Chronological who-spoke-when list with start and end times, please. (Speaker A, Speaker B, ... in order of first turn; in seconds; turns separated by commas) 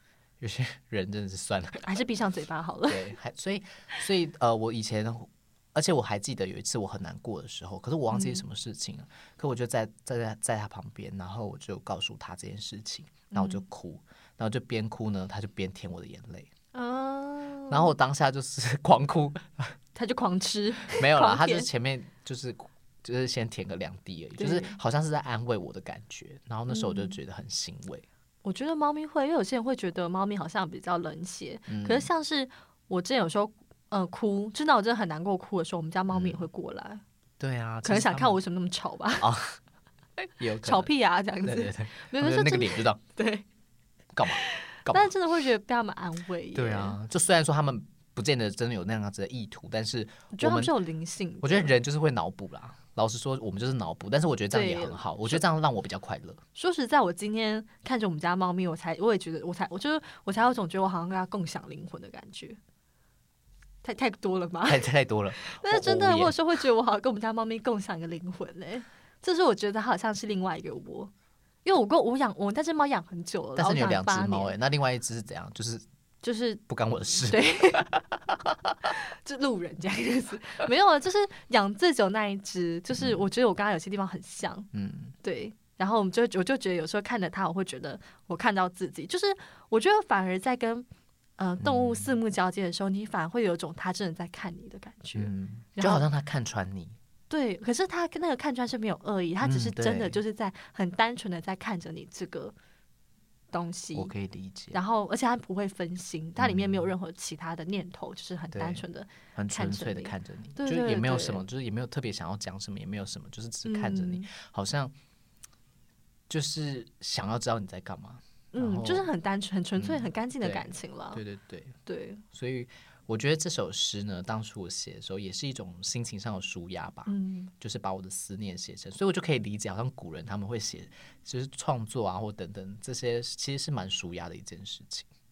Speaker A: 0.4-1.8, Speaker B: 1.8-3.1, Speaker A: 2.9-16.5, Speaker B: 8.1-8.4, Speaker B: 13.3-13.6, Speaker B: 16.7-17.9, Speaker A: 17.7-19.7, Speaker B: 19.9-21.7, Speaker A: 20.9-28.1, Speaker B: 24.4-24.8, Speaker B: 26.7-27.2, Speaker B: 28.4-37.0, Speaker A: 31.7-32.1, Speaker A: 36.1-36.5, Speaker A: 37.4-38.4, Speaker B: 37.8-39.3, Speaker A: 39.2-39.5, Speaker A: 40.4-40.9, Speaker B: 40.6-43.5, Speaker A: 41.4-43.0, Speaker A: 44.1-45.1, Speaker B: 44.3-47.0, Speaker A: 46.5-50.7, Speaker B: 50.3-51.7, Speaker A: 51.4-56.4, Speaker B: 54.5-55.4, Speaker B: 56.5-62.6, Speaker B: 63.8-64.8, Speaker A: 64.6-66.4, Speaker B: 65.4-71.1, Speaker B: 71.6-74.5, Speaker A: 73.5-75.8, Speaker B: 76.2-77.9, Speaker A: 76.7-78.7, Speaker B: 78.8-84.7, Speaker A: 84.7-85.1, Speaker B: 85.2-90.8, Speaker B: 91.4-96.0, Speaker A: 91.6-92.2, Speaker A: 95.1-97.0, Speaker B: 97.3-102.5, Speaker A: 99.4-100.2, Speaker B: 103.5-104.1, Speaker A: 103.9-104.8, Speaker B: 104.7-111.5, Speaker A: 106.4-106.9, Speaker A: 108.5-114.9, Speaker B: 113.6-114.3, Speaker A: 116.3-119.1, Speaker B: 118.5-121.2, Speaker A: 119.8-121.8, Speaker B: 121.8-122.2, Speaker A: 122.3-135.1, Speaker B: 127.1-127.5